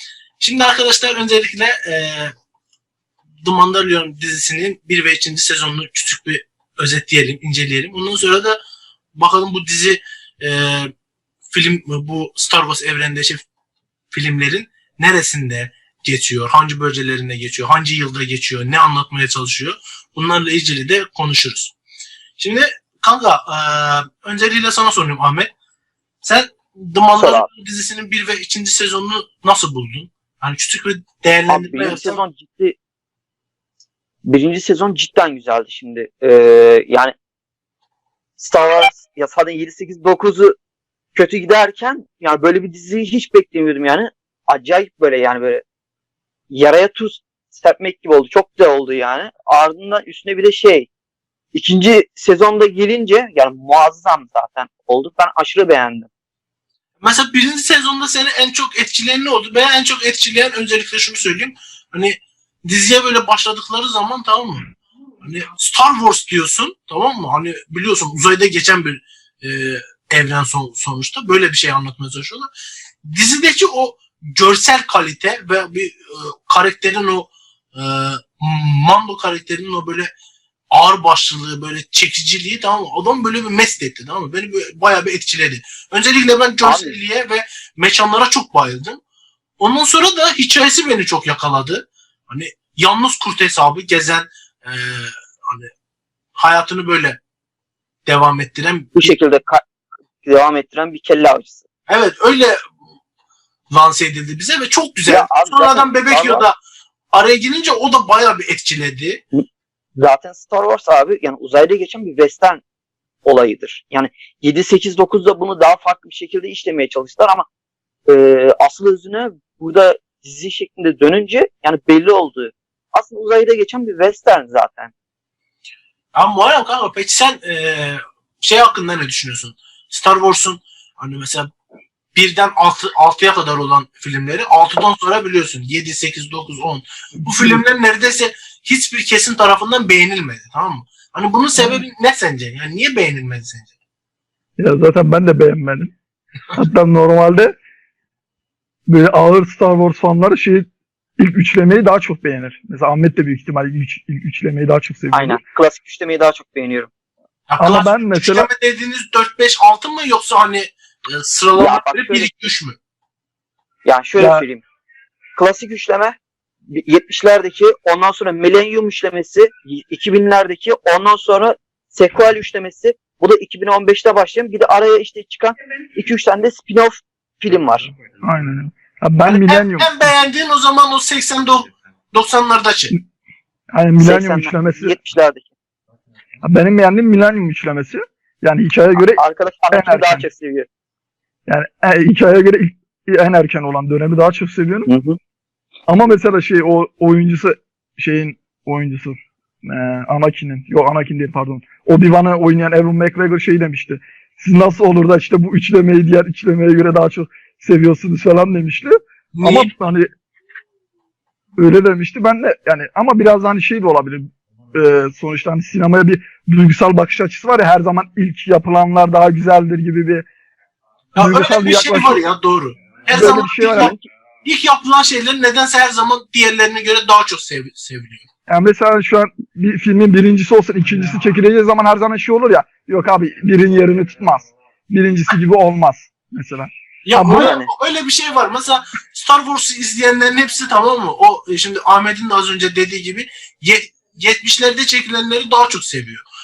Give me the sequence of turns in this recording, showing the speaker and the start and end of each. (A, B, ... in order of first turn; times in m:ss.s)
0:00.4-0:02.3 A
0:03.4-0:08.6 A
0:09.2-0:10.9 A
0:11.5-0:13.4 A
0:14.1-0:21.7 A
0:22.4-0:25.5 A
0:26.2-0:32.2 A
0:27.2-0:27.5 B
0:31.5-0:32.8 B
0:34.2-0:37.1 B
0:38.4-0:40.6 B
0:41.1-0:45.6 B
0:46.5-0:50.9 B
0:51.5-0:56.1 B
0:57.0-1:04.7 A
1:05.2-1:12.5 A
1:13.0-1:20.1 A
1:20.7-1:29.0 A
1:26.6-1:27.0 B
1:29.6-1:35.7 A
1:36.4-1:37.2 A
1:38.0-1:39.2 A
1:39.0-1:39.6 B
1:40.2-1:41.6 B
1:41.9-1:42.6 A
1:43.7-1:46.6 A
1:45.1-1:46.4 B
1:47.1-1:49.2 A
1:50.0-1:52.6 B
1:53.2-1:57.4 B
1:58.1-2:04.9 B
2:06.2-2:11.5 A
2:12.1-2:23.7 A
2:24.6-2:25.9 C
2:26.5-2:27.5 C
2:28.9-2:30.7 C
2:31.2-2:35.4 C
2:35.1-2:36.9 B
2:37.5-2:42.8 A
2:37.6-2:38.5 C
2:41.6-2:42.3 B
2:43.8-2:44.6 B
2:44.2-2:44.4 C
2:45.3-2:46.2 B
2:46.7-2:58.0 B
2:58.2-3:00.1 C
2:59.2-3:02.9 A
3:03.7-3:04.9 C
3:04.0-3:05.5 B
3:06.4-3:10.3 C
3:09.0-3:10.7 B
3:11.5-3:14.9 C
3:14.9-3:15.2 B
3:15.9-3:30.1 C
3:29.3-3:29.7 A
3:31.6-3:40.2 C
3:41.2-3:48.2 A
3:41.2-3:42.2 C
3:43.1-3:43.9 C
3:43.2-3:44.0 B
3:48.5-3:57.5 C
3:57.1-4:06.2 A
3:57.2-3:57.7 B